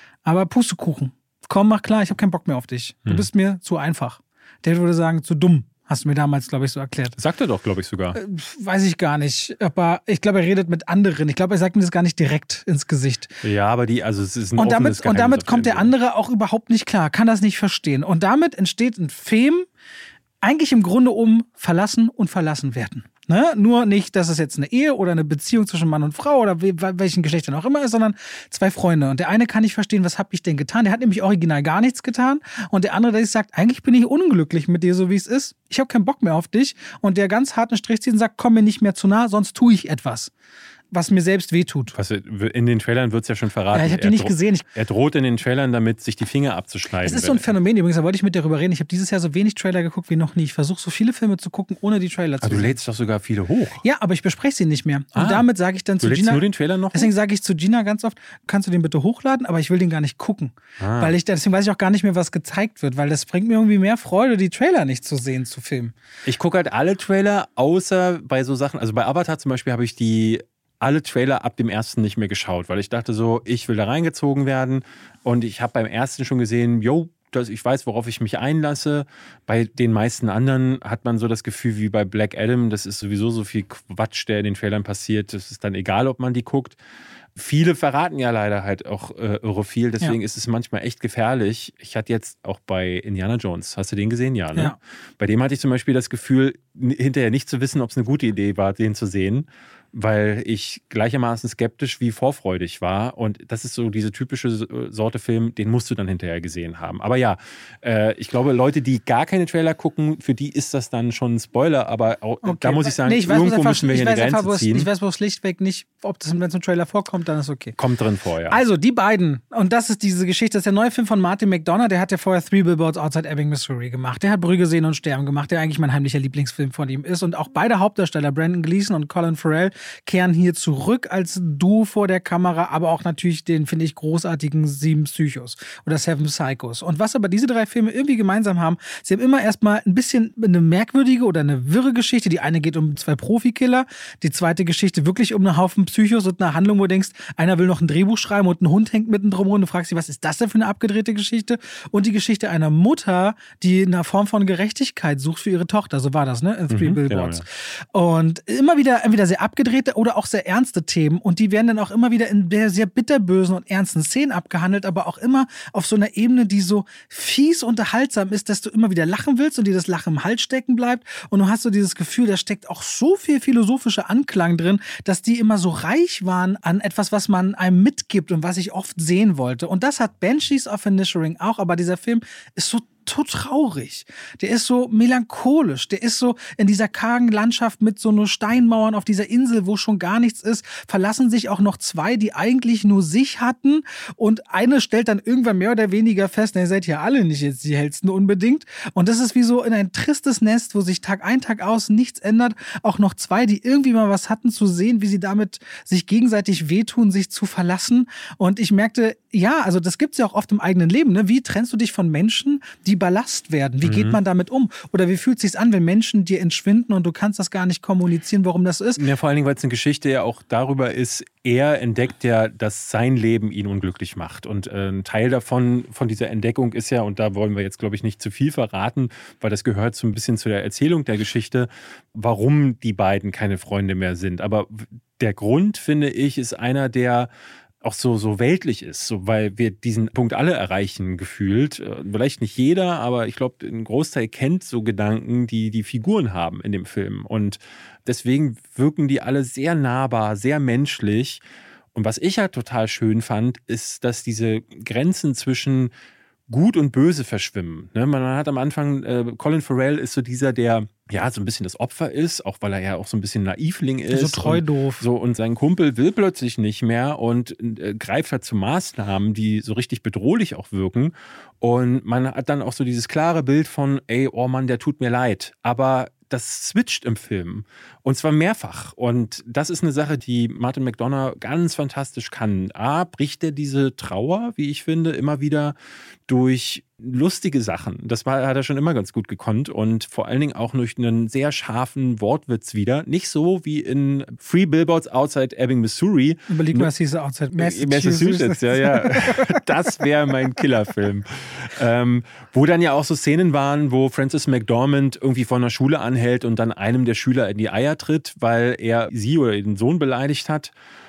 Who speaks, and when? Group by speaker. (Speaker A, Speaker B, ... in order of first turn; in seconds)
Speaker A: 0.2-7.2, 8.1-13.3, 14.6-19.7, 20.4-40.3, 40.9-41.9, 43.7-44.6, 47.0-52.8, 53.8-65.9, 112.4-117.8, 118.5-219.0, 264.1-265.0, 296.5-300.0
Speaker B: 7.2-8.2, 13.4-15.9, 41.9-47.5, 52.4-53.8, 55.1-55.5, 56.0-57.1, 60.8-61.1, 66.2-86.8, 87.3-114.9, 117.8-118.6, 156.7-157.4, 213.8-214.2, 219.0-237.3, 237.8-251.4, 251.9-255.9, 256.5-285.8, 286.3-296.9, 297.5-310.7